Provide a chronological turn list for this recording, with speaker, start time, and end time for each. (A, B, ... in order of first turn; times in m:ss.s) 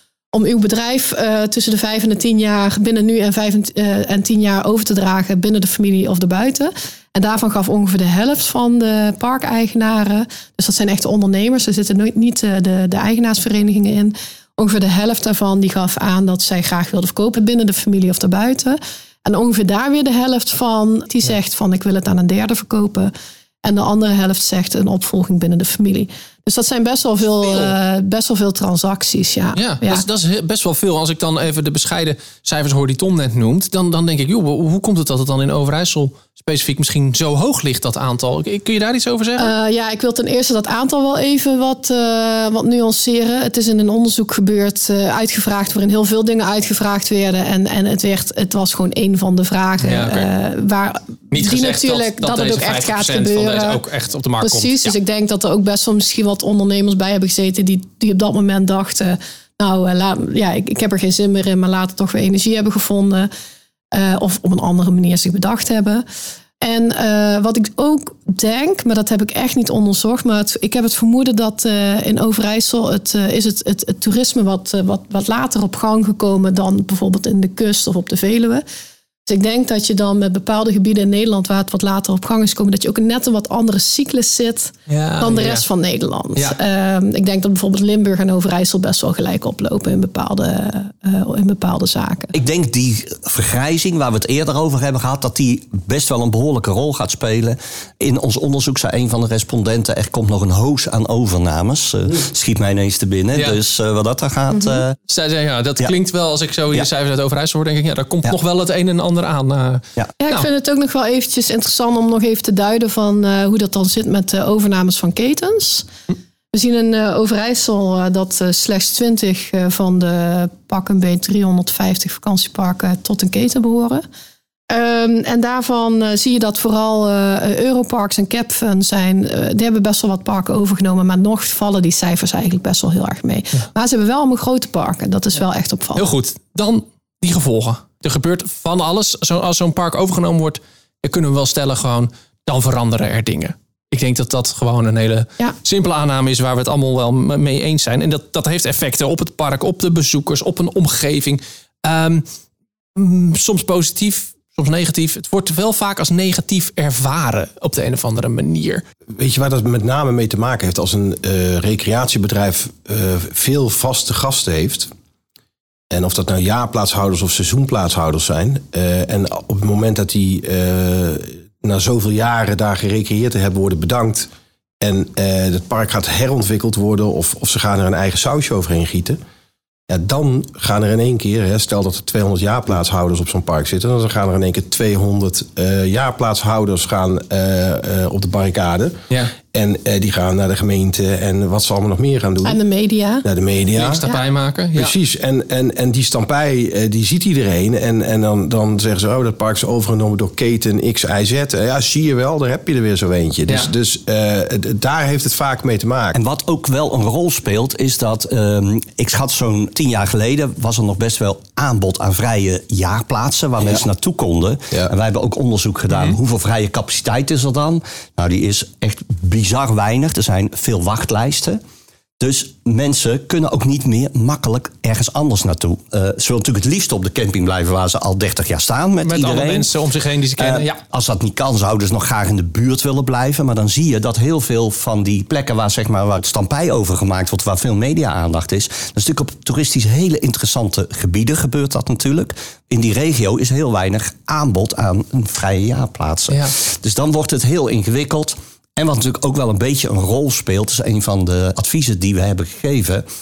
0:00.3-0:23.1 A
0:23.6-0:30.0 A
0:27.5-0:27.7 B
0:29.6-0:39.5 B
0:39.4-0:53.8 A
0:49.8-0:50.3 B
0:51.3-0:55.0 B
0:54.4-1:03.3 A
1:03.9-1:06.0 A
1:06.6-1:18.6 A
1:19.3-1:32.3 A
1:24.9-1:25.6 B
1:32.3-1:44.9 C
1:43.3-1:43.6 B
1:45.1-1:50.5 B
1:50.2-1:55.9 A
1:56.5-2:04.0 A
2:04.7-2:16.1 A
2:16.0-2:32.2 B
2:33.0-2:38.8 B
2:39.2-2:44.9 D
2:45.9-2:54.3 D
2:54.8-2:59.2 D
2:59.9-3:12.6 D
3:12.4-3:13.2 A
3:13.2-3:14.1 D
3:13.8-3:14.9 B
3:14.7-3:26.2 D
3:26.1-3:41.6 C
3:35.9-3:36.2 B
3:42.2-3:49.7 C
3:49.0-3:50.8 B
3:50.4-4:13.1 C